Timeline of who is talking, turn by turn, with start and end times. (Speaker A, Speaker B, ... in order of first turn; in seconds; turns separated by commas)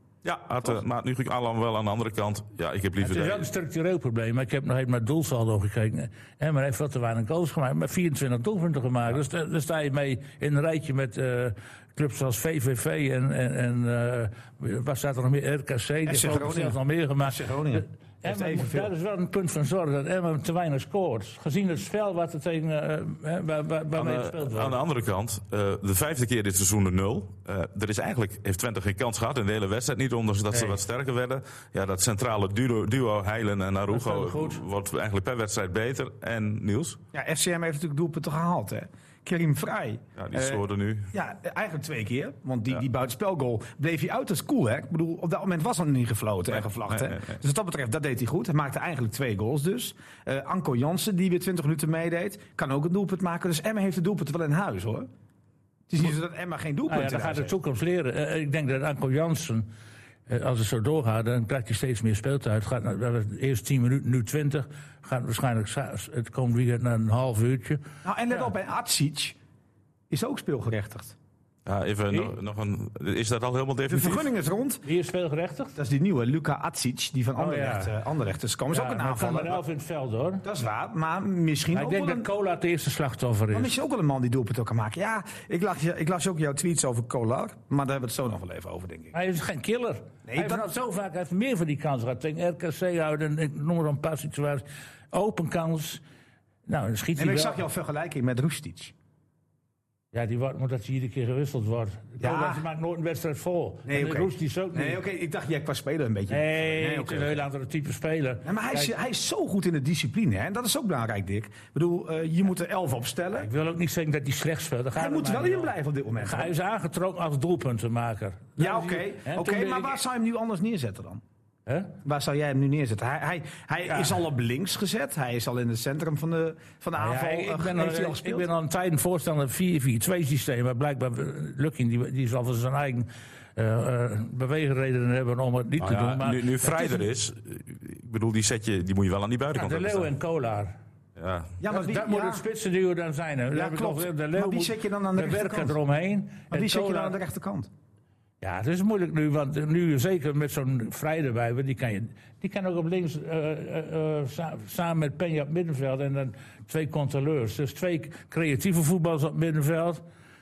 Speaker A: 0.2-3.5, Speaker B: 3.0-24.8, Speaker C: 16.1-18.9, Speaker A: 23.9-37.0, Speaker B: 30.5-30.8, Speaker B: 33.9-34.6, Speaker C: 37.1-55.1, Speaker A: 40.2-41.1, Speaker A: 46.8-47.4, Speaker C: 55.9-57.5, Speaker B: 56.9-59.7, Speaker B: 60.3-67.8, Speaker C: 68.0-69.4, Speaker C: 70.1-71.2, Speaker A: 71.7-74.3, Speaker C: 73.9-74.8, Speaker B: 74.8-75.7, Speaker C: 75.8-79.6, Speaker B: 77.4-77.9, Speaker B: 78.7-80.4, Speaker C: 80.4-82.3, Speaker B: 81.7-83.7, Speaker C: 83.5-89.1, Speaker B: 89.1-96.0, Speaker C: 90.2-90.7, Speaker B: 96.7-97.6, Speaker C: 97.2-98.9, Speaker B: 100.1-105.0, Speaker C: 102.2-102.6, Speaker C: 103.8-107.4, Speaker B: 106.3-108.9, Speaker C: 108.4-113.5, Speaker B: 113.3-120.0, Speaker C: 114.9-116.5, Speaker C: 118.6-121.2, Speaker B: 121.7-121.9, Speaker C: 122.0-128.5, Speaker B: 123.9-124.2, Speaker B: 127.0-137.0, Speaker A: 135.8-140.1, Speaker B: 139.5-140.7, Speaker A: 141.2-141.5, Speaker C: 141.6-142.4, Speaker B: 141.7-147.2, Speaker C: 143.5-145.8, Speaker C: 146.5-147.7, Speaker B: 148.4-160.0